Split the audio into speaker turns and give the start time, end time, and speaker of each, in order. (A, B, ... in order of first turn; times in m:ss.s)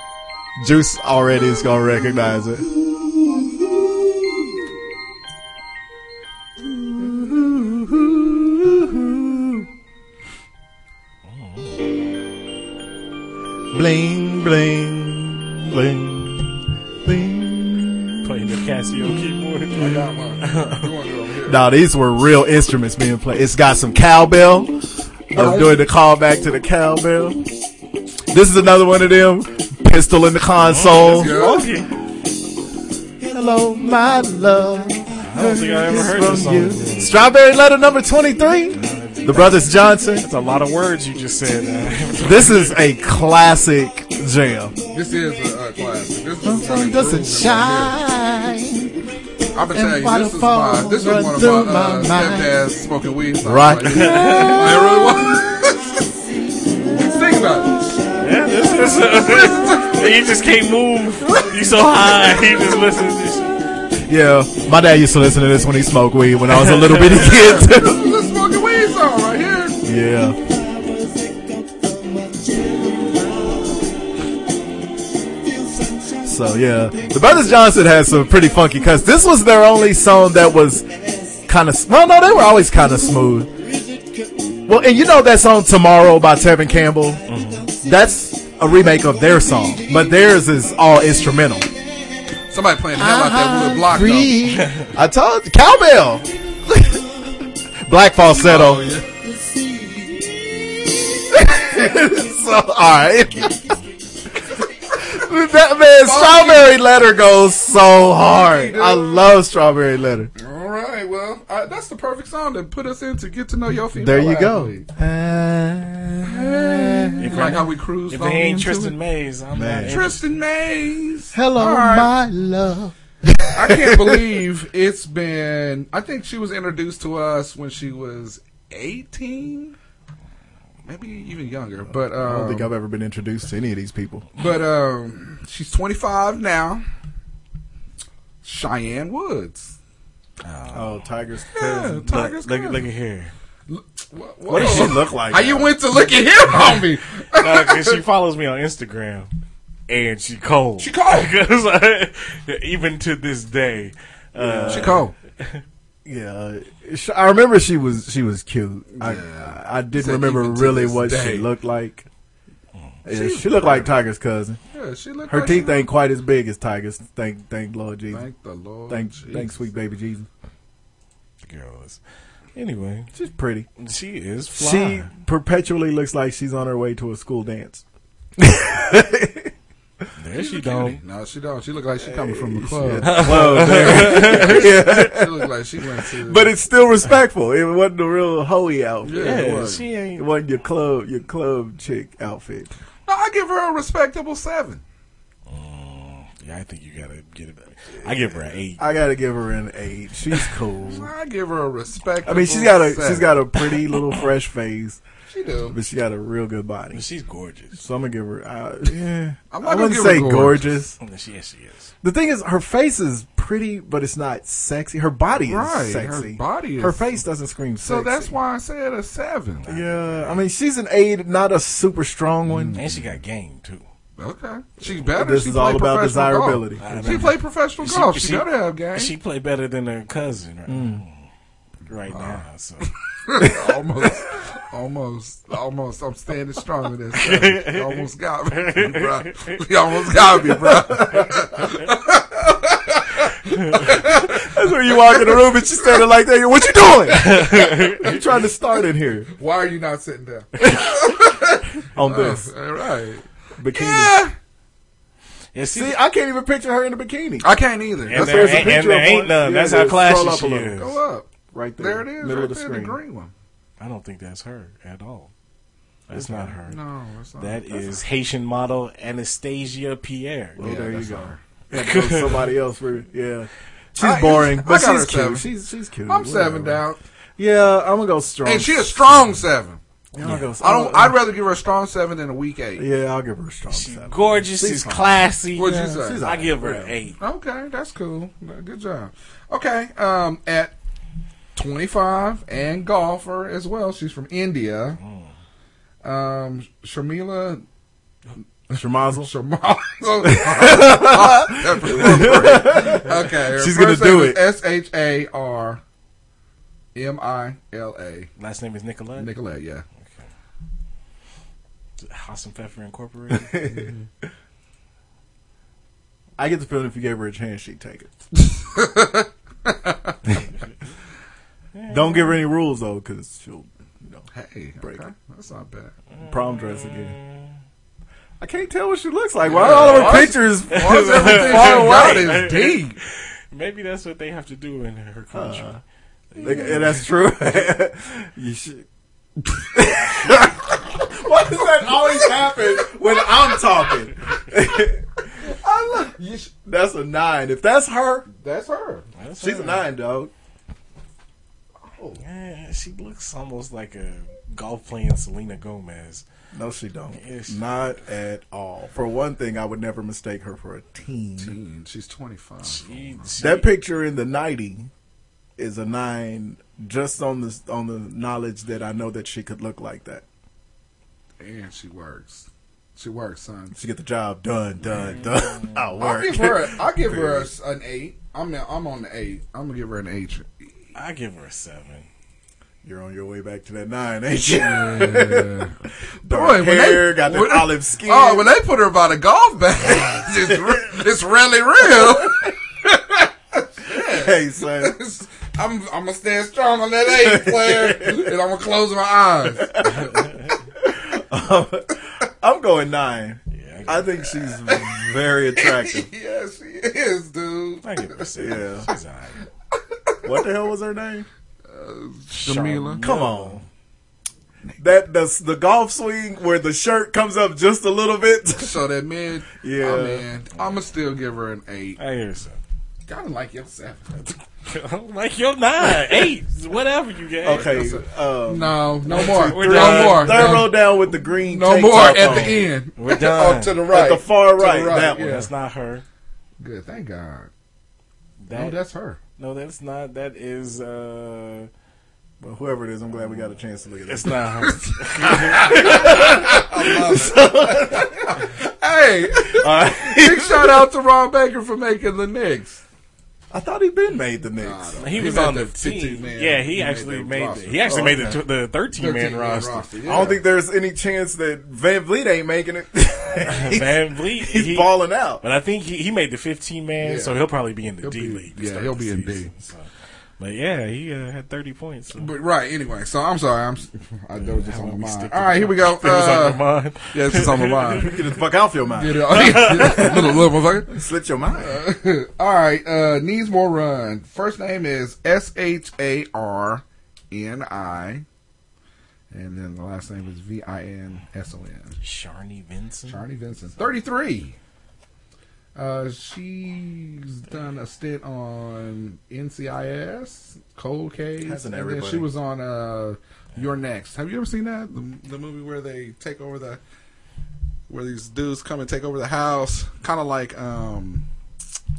0:00.6-0:04.5 A
0:06.6-0:09.7 A
0:11.2-0:11.8 B
0:13.7-0:18.3 A
0:18.2-0:20.9 B
0:19.8-0:21.6 C
0:21.4-0:24.8 A
0:25.3-0:27.5 A
0:25.3-0:25.8 C
0:28.3-0:31.7 A
0:30.6-0:31.9 B
0:31.0-0:31.7 C
0:33.2-0:40.3 A
0:35.3-0:37.1 B
0:38.7-0:42.8 B
0:42.2-0:44.7 A
0:44.9-0:48.0 C
0:46.4-0:49.0 A
0:49.5-0:56.0 C
0:49.7-0:52.6 A
0:53.4-0:55.0 A
0:53.9-0:54.8 B
0:56.9-0:57.7 C
0:58.2-1:03.6 B
0:59.1-1:00.2 C
1:01.2-1:01.6 A
1:04.0-1:08.1 A
1:06.5-1:07.2 B
1:07.2-1:09.8 C
1:09.8-1:10.4 A
1:16.2-1:23.5 A
1:24.6-1:31.7 A
1:27.3-1:27.7 B
1:32.5-1:34.4 C
1:32.9-1:38.9 A
1:34.6-1:34.9 B
1:38.3-1:39.1 C
1:41.2-1:43.6 A
1:44.9-1:50.3 A
1:46.0-1:46.8 C
1:48.3-1:49.2 C
1:50.4-1:54.8 C
1:53.9-1:57.6 A
1:56.2-1:59.0 C
1:57.2-2:00.2 B
1:59.5-2:00.1 A
1:59.8-2:02.1 C
2:01.3-2:04.3 A
2:03.5-2:09.7 C
2:10.8-2:12.7 C
2:12.1-2:14.2 A
2:14.4-2:16.8 C
2:18.4-2:19.7 C
2:20.4-2:21.1 B
2:20.7-2:22.2 A
2:21.5-2:22.8 C
2:22.1-2:23.3 B
2:23.7-2:28.0 C
2:24.5-2:25.8 A
2:27.4-2:29.3 B
2:29.9-2:35.6 B
2:30.8-2:31.3 C
2:34.4-2:35.0 A
2:34.7-2:35.1 C
2:36.0-2:42.1 A
2:38.9-2:41.5 C
2:43.0-2:44.6 A
2:43.1-2:43.9 C
2:44.7-2:45.8 C
2:45.3-2:48.2 A
2:48.1-2:49.6 C
2:48.9-2:50.3 A
2:51.4-2:52.0 B
2:52.6-2:53.1 B
2:53.1-2:53.7 A
2:53.8-2:55.1 B
2:54.5-2:57.8 A
2:58.4-2:59.5 A
3:00.2-3:01.0 B
3:00.3-3:06.5 C
3:02.0-3:09.6 A
3:03.0-3:04.7 B
3:09.0-3:09.8 C
3:09.1-3:10.2 B
3:10.2-3:12.7 A
3:13.0-3:14.8 C
3:15.5-3:18.8 B
3:18.8-3:21.1 A
3:20.8-3:23.4 C
3:22.2-3:25.0 A
3:25.3-3:25.8 C
3:25.7-3:27.0 A
3:26.9-3:27.8 B
3:27.7-3:31.0 A
3:29.5-3:30.8 C
3:31.0-3:31.9 B
3:32.0-3:38.3 A
3:35.4-3:37.1 C
3:37.8-3:39.6 C
3:39.6-3:40.4 B
3:39.6-3:42.8 A
3:42.5-3:43.1 C
3:42.7-3:43.8 B
3:44.2-3:49.1 C
3:45.1-3:47.3 A
3:46.8-3:51.3 B
3:50.7-3:51.0 A
3:51.9-3:52.9 B
3:52.1-4:06.0 C
3:57.2-3:59.3 B
4:00.6-4:01.4 A
4:03.8-4:09.3 A
4:07.1-4:08.0 B
4:07.3-4:08.2 C
4:09.4-4:14.3 C
4:11.9-4:12.5 A
4:13.6-4:14.2 A
4:15.5-4:16.0 B
4:15.7-4:17.5 A
4:17.4-4:18.8 C
4:18.1-4:20.8 A
4:18.1-4:21.0 B
4:20.8-4:23.3 C
4:21.5-4:23.0 A
4:23.8-4:25.3 B
4:26.1-4:26.5 A
4:26.1-4:26.8 B
4:26.6-4:28.0 C
4:27.4-4:30.6 B
4:30.6-4:36.8 A
4:30.6-4:31.4 C
4:31.7-4:32.5 B
4:34.0-4:35.5 C
4:36.1-4:37.0 C
4:37.4-4:39.3 A
4:38.4-4:39.8 C
4:40.1-4:41.2 A
4:40.2-4:40.5 B
4:40.6-4:42.8 C
4:42.8-4:47.0 A
4:43.7-4:47.2 B
4:45.5-4:46.2 C
4:47.2-4:50.7 C
4:51.6-4:55.0 C
4:55.0-4:55.3 B
4:56.0-4:57.6 C
4:58.7-5:05.8 C
4:58.7-4:59.3 A
5:00.2-5:04.4 A
5:06.9-5:08.3 C
5:08.4-5:09.3 B
5:09.2-5:09.8 C
5:10.0-5:10.2 B
5:12.0-5:13.6 B
5:13.3-5:13.9 A
5:16.4-5:18.1 A
5:18.7-5:20.1 C
5:21.7-5:22.4 B
5:21.9-5:24.2 A
5:24.3-5:25.9 C
5:24.8-5:25.0 A
5:26.1-5:27.6 B
5:26.2-5:27.2 A
5:28.4-5:32.4 A
5:29.4-5:33.0 C
5:29.5-5:35.7 B
5:35.3-5:35.8 A
5:36.3-5:37.0 B
5:36.3-5:36.8 C
5:36.4-5:38.8 A
5:39.6-5:45.3 A
5:45.4-5:46.5 C
5:45.9-5:48.3 A
5:48.4-5:49.1 C
5:49.2-5:49.9 B
5:49.4-5:50.3 A
5:51.9-5:52.2 C
5:52.2-5:56.2 B
5:56.5-6:01.6 A
5:57.2-5:57.6 B
6:01.4-6:03.3 C
6:02.6-6:03.7 B
6:03.4-6:04.9 A
6:05.6-6:10.2 A
6:11.4-6:13.8 C
6:13.7-6:17.5 A
6:14.9-6:15.9 B
6:16.0-6:20.7 C
6:20.9-6:22.1 B
6:22.8-6:25.7 A
6:24.5-6:39.8 C
6:26.2-6:28.5 A
6:30.1-6:31.0 A
6:31.9-6:32.5 A
6:33.9-6:35.0 A
6:37.0-6:38.3 A
6:39.6-6:40.2 A
6:39.9-6:40.5 B
6:40.8-6:46.1 A
6:43.5-6:44.1 B
6:44.5-6:48.0 C
6:47.8-6:49.4 B
6:48.4-6:48.8 A
6:50.2-6:51.3 A
6:51.7-6:53.0 C
6:52.3-6:53.6 B
6:53.0-6:53.6 A
6:54.8-6:58.8 A
6:58.6-7:02.0 C
6:59.6-7:00.2 A
7:00.5-7:00.9 B
7:02.0-7:02.6 B
7:03.1-7:04.0 C
7:04.2-7:07.8 B
7:07.4-7:12.7 A
7:07.5-7:10.9 C
7:09.1-7:10.7 B
7:11.4-7:15.5 C
7:13.0-7:13.8 B
7:13.9-7:15.4 A
7:15.0-7:16.0 B
7:16.6-7:17.5 C
7:18.4-7:18.7 B
7:18.5-7:19.2 C
7:19.4-7:21.7 B
7:22.4-7:24.7 A
7:24.1-7:26.2 B
7:24.7-7:32.8 C
7:25.4-7:28.4 A
7:29.4-7:30.9 A
7:33.5-7:35.2 A
7:34.6-7:38.0 C
7:35.0-7:39.9 B
7:37.8-7:38.4 A
7:39.0-7:40.4 C
7:40.0-7:45.4 A
7:43.4-7:49.8 B
7:47.0-7:47.4 C
7:48.0-7:49.5 C
7:50.4-7:52.3 B
7:52.1-7:58.1 C
7:54.4-7:58.2 B
7:57.9-8:01.8 A
7:59.0-8:00.9 C
7:59.3-8:00.2 B
8:01.6-8:08.2 C
8:09.3-8:12.0 C
8:12.0-8:13.9 B
8:13.1-8:14.6 C
8:15.7-8:26.8 C
8:21.4-8:22.3 A
8:27.9-8:31.2 C